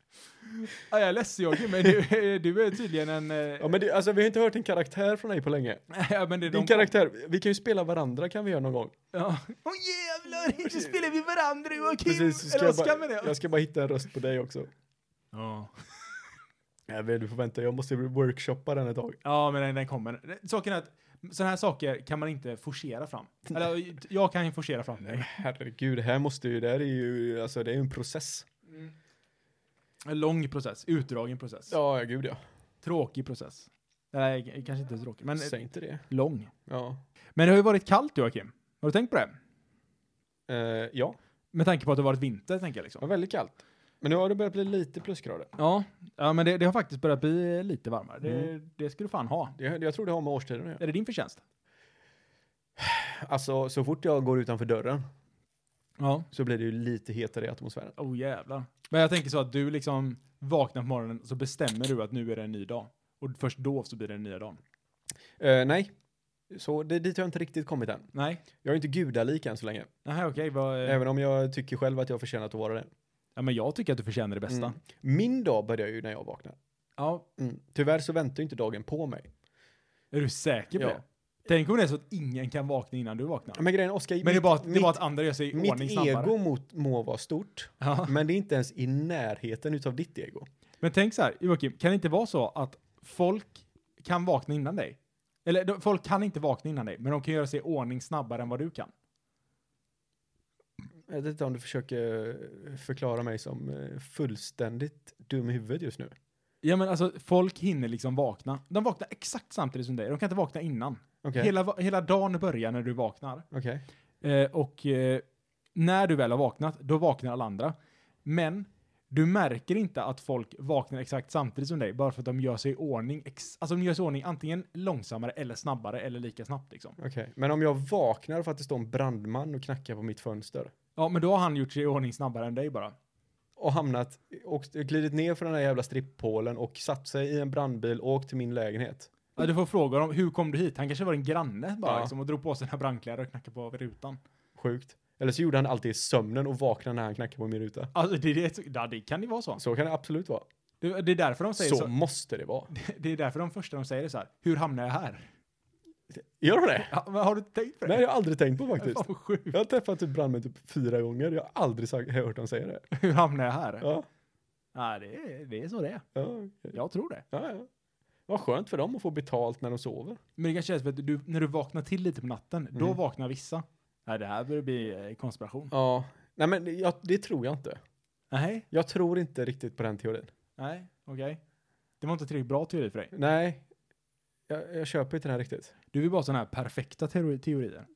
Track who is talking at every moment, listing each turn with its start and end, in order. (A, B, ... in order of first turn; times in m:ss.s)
0:00.4-0:03.8 A
0:03.6-0:05.8 B
0:05.9-0:06.9 A
0:06.5-0:08.9 B
0:09.1-0:13.4 A
0:12.0-0:14.7 B
0:15.3-0:16.2 A
0:16.9-0:19.2 B
0:19.2-0:25.3 A
0:25.0-0:28.5 B
0:30.0-0:31.7 A
0:31.7-0:32.4 B
0:32.8-0:35.6 A
0:35.4-0:36.0 B
0:36.1-0:36.5 A
0:36.7-0:37.0 B
0:37.4-0:39.3 A
0:40.5-0:41.2 B
0:41.5-0:43.0 A
0:43.0-0:45.5 B
0:45.6-0:49.6 A
0:48.2-0:48.5 B
0:49.6-0:50.8 B
0:50.8-0:51.4 A
0:52.8-0:55.1 B
0:56.0-0:56.3 A
0:56.3-0:58.0 B
0:58.0-1:04.6 A
1:05.4-1:05.9 B
1:06.5-1:08.1 B
1:08.1-1:08.4 A
1:08.6-1:09.9 B
1:10.0-1:11.0 A
1:10.8-1:12.9 B
1:13.4-1:14.8 A
1:14.5-1:16.6 B
1:17.0-1:17.2 A
1:17.4-1:19.3 B
1:20.1-1:23.6 A
1:23.6-1:30.5 B
1:24.2-1:26.3 A
1:27.8-1:28.1 A
1:30.8-1:38.9 A
1:41.1-1:46.2 B
1:46.6-1:53.5 A
1:51.2-1:51.5 B
1:53.5-1:53.8 B
1:54.2-1:55.2 A
1:55.8-2:07.0 A
2:07.0-2:10.7 B
2:11.0-2:13.0 A
2:13.6-2:19.1 B
2:19.4-2:24.2 A
2:21.8-2:22.1 B
2:24.6-2:27.9 B
2:27.9-2:29.6 A
2:29.6-2:30.4 B
2:30.8-2:31.9 A
2:31.6-2:32.7 B
2:32.7-2:35.3 A
2:36.1-2:36.9 B
2:36.9-2:38.0 A
2:37.9-2:42.9 B
2:38.8-2:39.6 A
2:42.9-2:43.9 A
2:43.8-2:44.1 B
2:44.8-2:46.0 A
2:46.2-2:46.8 B
2:46.7-2:47.2 A
2:47.3-2:47.7 B
2:48.3-2:50.2 B
2:50.4-2:55.7 A
2:55.7-2:57.8 B
2:58.3-2:58.7 A
2:58.7-3:00.3 B
3:00.6-3:01.4 A
3:02.0-3:03.1 A
3:03.1-3:03.7 B
3:04.5-3:05.7 B
3:05.9-3:07.9 A